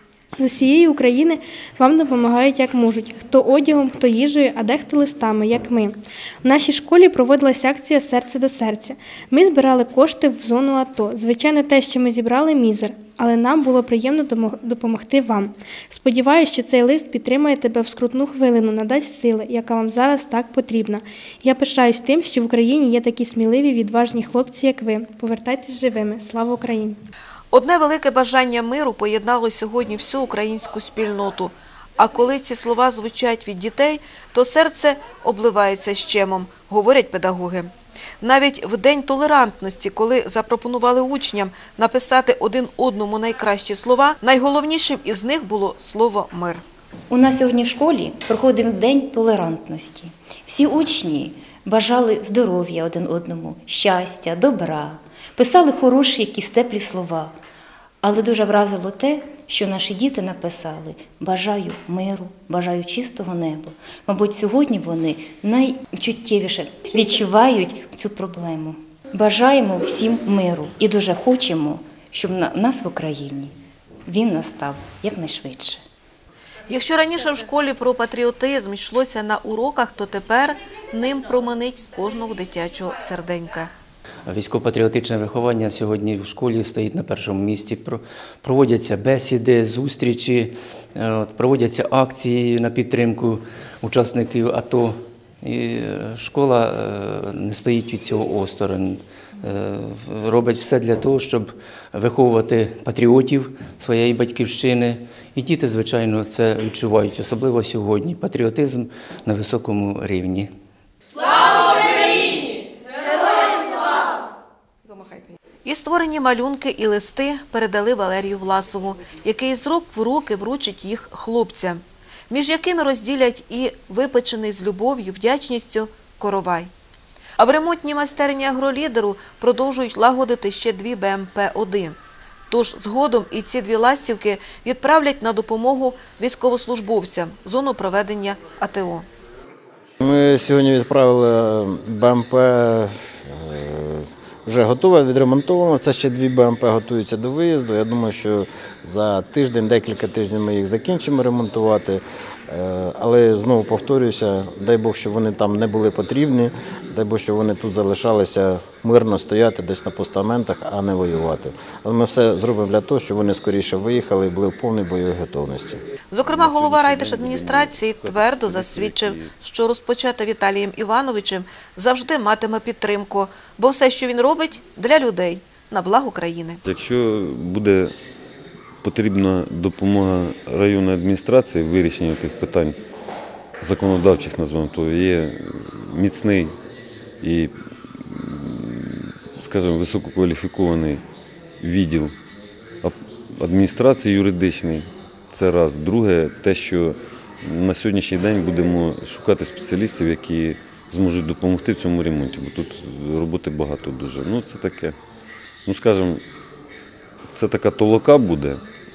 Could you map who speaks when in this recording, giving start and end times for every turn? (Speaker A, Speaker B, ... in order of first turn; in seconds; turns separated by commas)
Speaker A: 0.4-27.0, Speaker B: 27.5-46.6, Speaker C: 47.1-57.3, Speaker C: 58.0-73.5, Speaker C: 74.0-75.8, Speaker B: 76.7-83.7, Speaker D: 84.2-110.5, Speaker B: 115.6-126.7, Speaker B: 127.4-132.0, Speaker B: 132.5-139.1, Speaker E: 140.0-165.8, Speaker B: 166.1-176.6, Speaker F: 166.2-169.3, Speaker F: 176.6-177.9, Speaker F: 178.8-182.8, Speaker F: 183.6-186.5, Speaker F: 187.2-191.0, Speaker F: 191.6-192.1, Speaker F: 192.8-204.9, Speaker F: 205.7-206.2, Speaker F: 207.3-208.6